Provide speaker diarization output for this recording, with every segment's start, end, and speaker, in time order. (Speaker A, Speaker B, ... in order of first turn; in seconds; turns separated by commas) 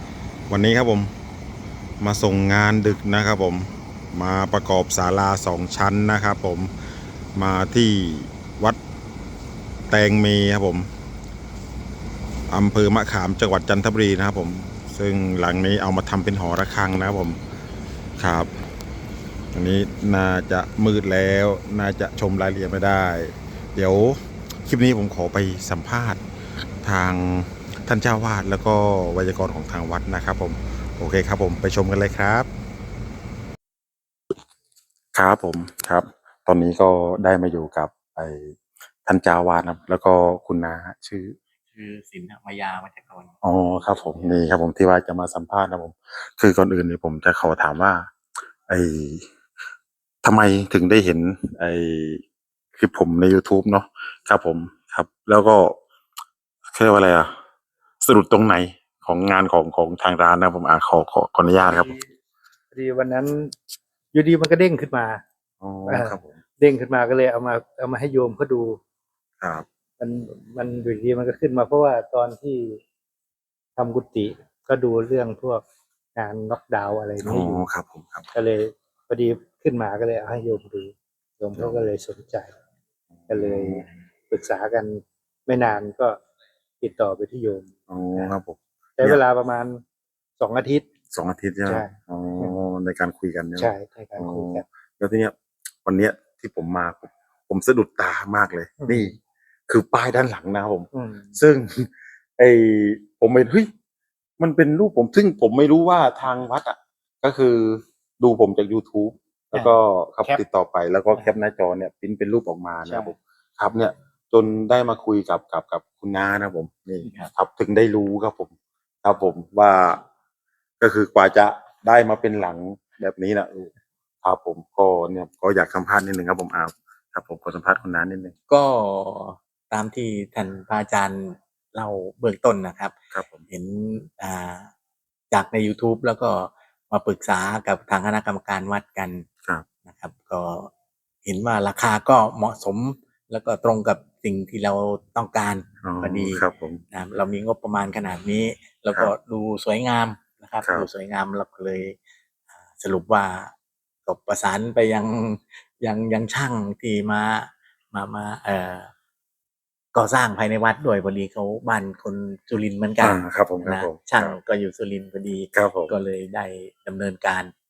Speaker A: 0.5-1.1, Speaker A: 2.0-6.7, Speaker A: 7.3-8.8, Speaker A: 9.9-10.9, Speaker A: 12.5-17.4, Speaker A: 18.2-18.5, Speaker A: 19.5-26.2, Speaker A: 26.8-32.5, Speaker A: 35.1-41.3, Speaker B: 41.7-44.5, Speaker A: 43.4-48.1, Speaker A: 48.6-49.3, Speaker A: 50.2-52.2, Speaker A: 52.7-55.8, Speaker A: 56.7-57.3, Speaker A: 58.0-62.0, Speaker C: 61.5-62.1, Speaker C: 62.7-63.5, Speaker C: 64.1-65.2, Speaker A: 65.6-66.4, Speaker C: 65.9-68.8, Speaker A: 69.4-69.7, Speaker C: 70.0-72.8, Speaker C: 73.8-75.6, Speaker C: 76.2-77.6, Speaker A: 77.2-78.3, Speaker C: 78.3-82.5, Speaker A: 81.5-81.9, Speaker A: 83.1-83.9, Speaker C: 83.3-86.2, Speaker C: 86.8-88.3, Speaker A: 87.9-89.2, Speaker C: 89.0-89.8, Speaker C: 90.4-90.8, Speaker A: 91.1-99.1, Speaker C: 91.7-92.5, Speaker C: 93.6-94.6, Speaker C: 98.8-99.1, Speaker A: 99.7-103.7, Speaker C: 100.9-101.3, Speaker A: 104.4-118.5, Speaker C: 109.5-110.4, Speaker B: 117.0-117.3, Speaker A: 119.0-120.0, Speaker A: 120.8-123.7, Speaker A: 124.2-128.3, Speaker B: 128.5-133.0, Speaker A: 133.1-133.4, Speaker B: 133.5-134.7, Speaker B: 135.3-139.3, Speaker B: 139.9-140.7, Speaker B: 141.2-152.0, Speaker A: 145.8-146.8, Speaker A: 150.6-150.9, Speaker B: 152.8-153.5, Speaker B: 154.1-158.9, Speaker B: 159.9-167.5, Speaker A: 163.0-164.4, Speaker A: 165.5-165.9